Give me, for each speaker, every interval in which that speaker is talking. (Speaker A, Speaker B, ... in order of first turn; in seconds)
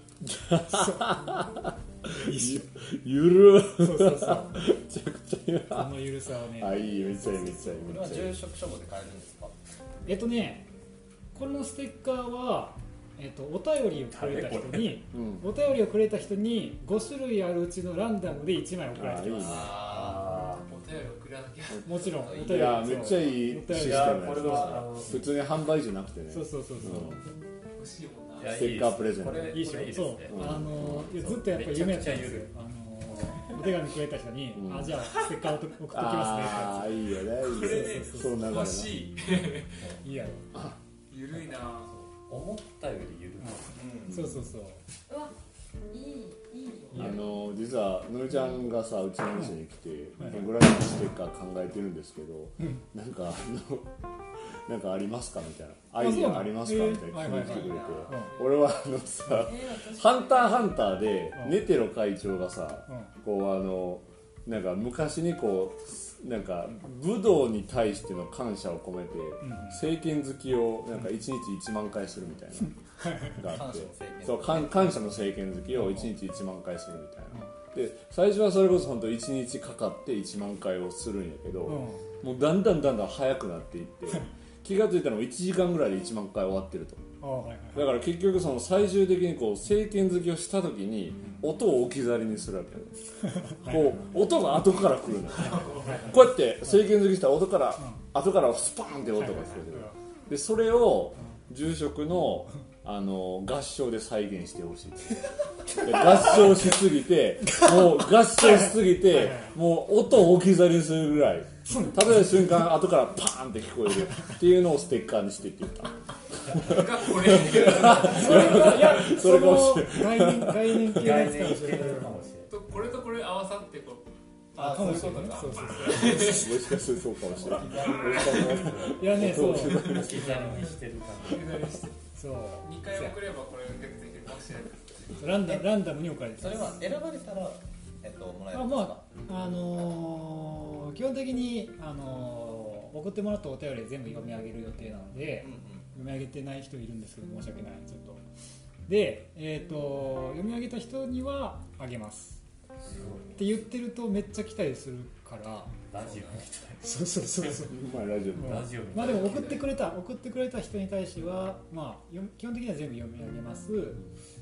Speaker A: 0.2-8.5, 15.1-15.5, 18.9-19.7, 22.4-27.2, 28.5-29.6, 30.3-31.1, 34.5-35.0, 35.9-39.0, 46.9-72.8, 73.3-87.0, 87.7-121.2, 126.0-130.2, 157.7-158.7
Speaker B: 0.7-1.2, 2.1-2.7, 3.8-4.6, 5.7-8.0, 10.1-10.7, 11.3-19.8, 21.9-24.8, 26.3-27.2, 29.4-37.1, 37.6-38.3, 40.0-40.5, 43.4-44.8, 46.9-47.3, 50.2-50.5, 56.0-58.3, 61.4-61.6, 62.9-63.1, 69.4-69.9, 72.7-73.5, 75.7-76.1, 81.7-82.1, 87.2-88.0, 93.4-94.1, 95.4-96.8, 99.2-100.0, 108.3-109.6, 111.7-112.2, 117.9-122.2, 124.5-126.3, 128.9-129.9, 132.2-133.2, 135.2-136.8, 138.5-148.2, 148.9-152.4, 153.4-155.8, 156.8-157.8, 158.4-164.0
Speaker C: 7.9-9.7, 19.6-20.0, 22.2-23.0, 43.8-44.3, 57.5-58.1, 73.4-75.1, 124.5-126.3, 127.2-128.9, 136.4-139.2, 145.4-145.9
Speaker D: 14.1-15.0, 19.4-20.6, 23.7-25.2, 28.4-32.5, 41.9-43.8, 120.9-122.5, 127.8-131.7, 152.8-153.5, 155.9-156.9, 158.4-159.7
Speaker E: 19.9-22.2, 27.8-28.8, 37.4-40.0, 41.1-41.9, 58.1-58.4, 95.7-96.0, 116.5-118.7, 122.5-124.1, 124.6-126.8, 129.7-132.0, 132.6-135.3, 159.0-159.7
Speaker F: 45.1-45.3, 45.9-47.0, 59.3-61.0